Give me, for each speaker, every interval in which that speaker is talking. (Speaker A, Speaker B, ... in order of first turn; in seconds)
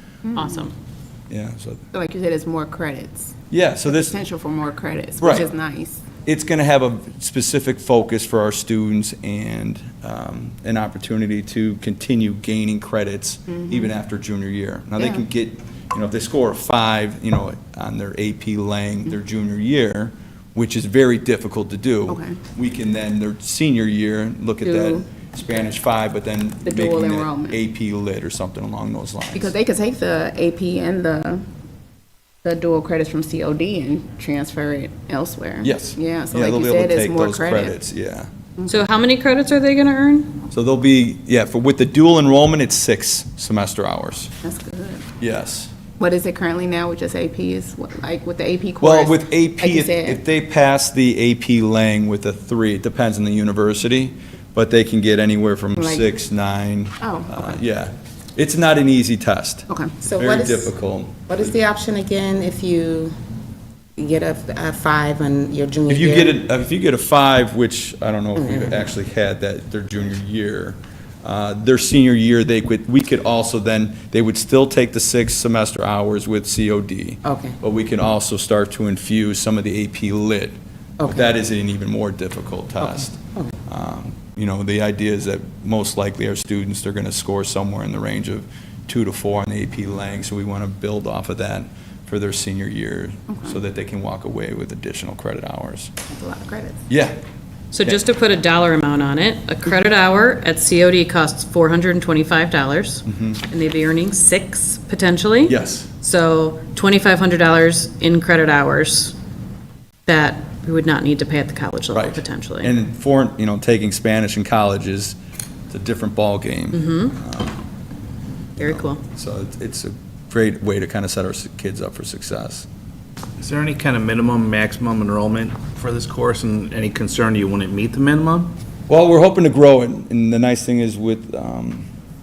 Speaker A: 0.2-0.6, 1.9-3.3, 3.8-6.0, 13.5-13.9, 15.0-15.2, 22.1-22.4, 24.6-25.0, 26.6-27.6, 29.3-31.4, 32.4-37.7, 44.4-45.0, 46.0-50.2, 55.8-56.0, 57.0-57.6, 59.7-60.0, 93.3-93.5, 96.1-96.8
Speaker B: 0.3-0.7, 38.7-40.4, 97.7-109.1, 110.0-112.7, 116.7-117.1, 118.6-119.0
Speaker C: 1.3-1.8, 3.5-4.2, 5.2-5.5, 6.2-29.5, 35.6-38.3, 40.5-44.3, 45.2-45.7, 48.8-61.5, 65.9-95.9, 96.9-97.2, 103.0-103.4, 105.4-105.9, 111.9-115.2, 115.7-117.6, 118.6-122.7, 128.9-131.9
Speaker D: 60.0-60.7, 61.3-63.1, 64.0-66.4
Speaker E: 123.4-128.5